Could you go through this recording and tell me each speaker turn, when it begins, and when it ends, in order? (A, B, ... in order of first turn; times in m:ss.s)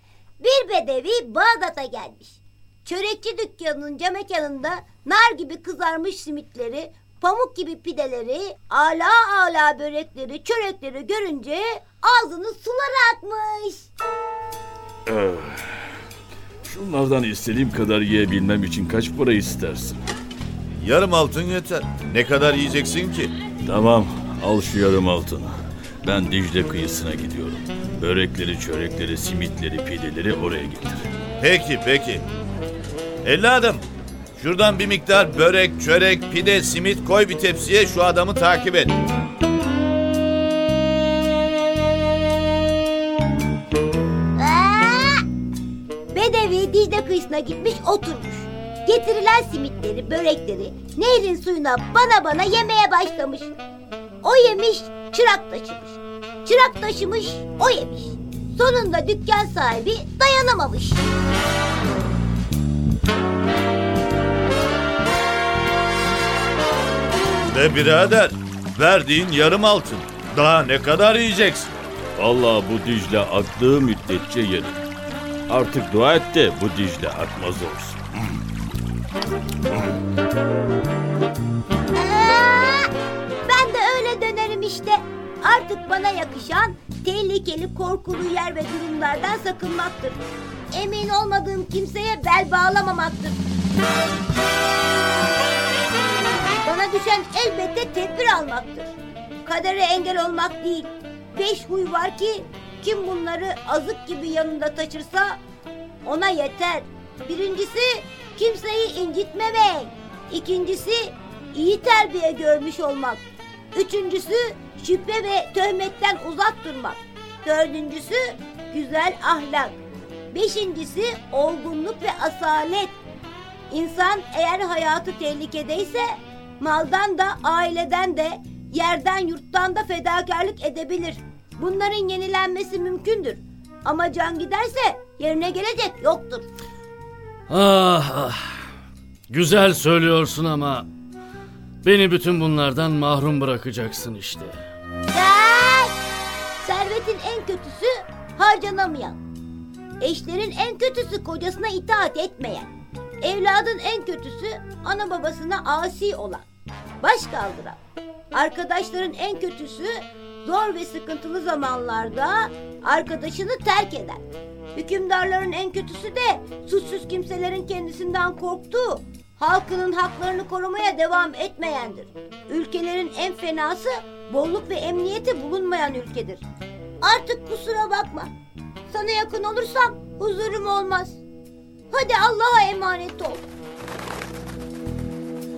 0:00.4-0:13.9 A
0:15.1-0:15.8 B
0:16.6-0:20.0 B
0:20.8-0:23.3 C
0:23.7-0:31.1 B
0:31.4-0:32.2 C
0:33.2-0:33.8 C
0:34.4-0:38.9 C
0:44.4-0:45.2 A
0:46.1-0:53.5 A
0:54.2-1:01.0 A
1:07.5-1:11.7 C
1:12.2-1:14.8 B
1:15.5-1:18.0 B
1:22.0-1:22.9 A
1:23.4-1:30.2 A
1:30.7-1:33.4 A
1:36.6-1:45.4 A
1:46.0-1:53.2 A
1:53.7-1:59.8 A
2:00.3-2:03.0 A
2:03.7-2:16.5 A
2:17.5-2:18.6 D
2:19.3-2:20.9 D
2:21.8-2:24.6 D
2:25.1-2:25.9 A
2:26.6-2:29.2 A
2:30.0-2:36.4 A
2:37.0-2:37.8 A
2:38.3-2:44.2 A
2:44.8-2:56.4 A
2:57.0-2:58.3 A
2:58.9-3:01.2 A
3:01.9-3:03.5 A